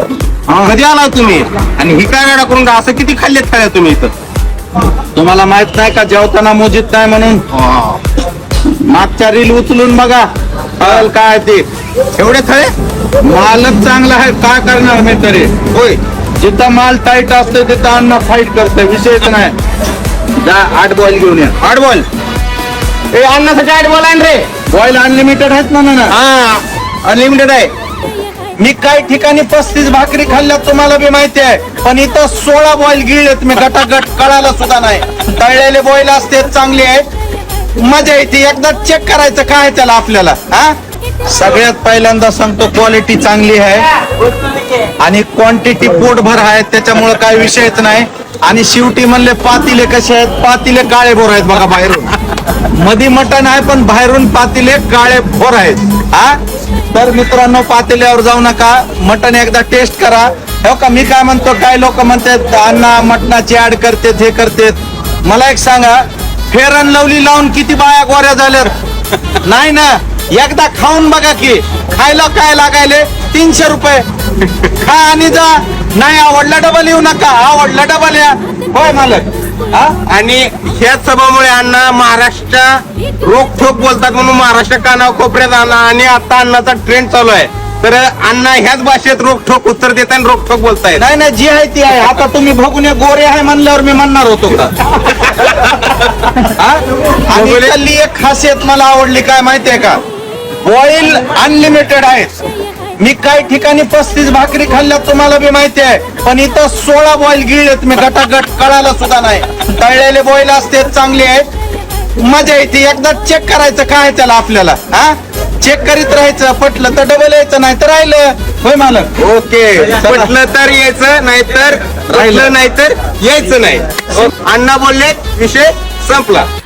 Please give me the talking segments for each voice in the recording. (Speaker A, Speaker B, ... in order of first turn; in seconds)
Speaker A: 0.5-0.8, 5.2-7.4, 8.9-10.3, 10.8-19.6, 20.4-22.1, 24.7-26.1, 27.1-27.7, 28.6-37.1, 37.8-40.8, 41.3-43.9, 45.0-52.1, 52.7-56.4, 56.9-68.7, 69.4-74.1, 74.6-79.9, 91.0-100.0, 100.6-102.4, 103.0-111.5, 112.2-119.1, 120.0-120.3, 122.2-122.5
Speaker B: 0.6-4.1, 23.1-24.5, 26.1-26.6, 79.9-82.7, 83.2-91.0, 97.3-97.7, 119.2-126.5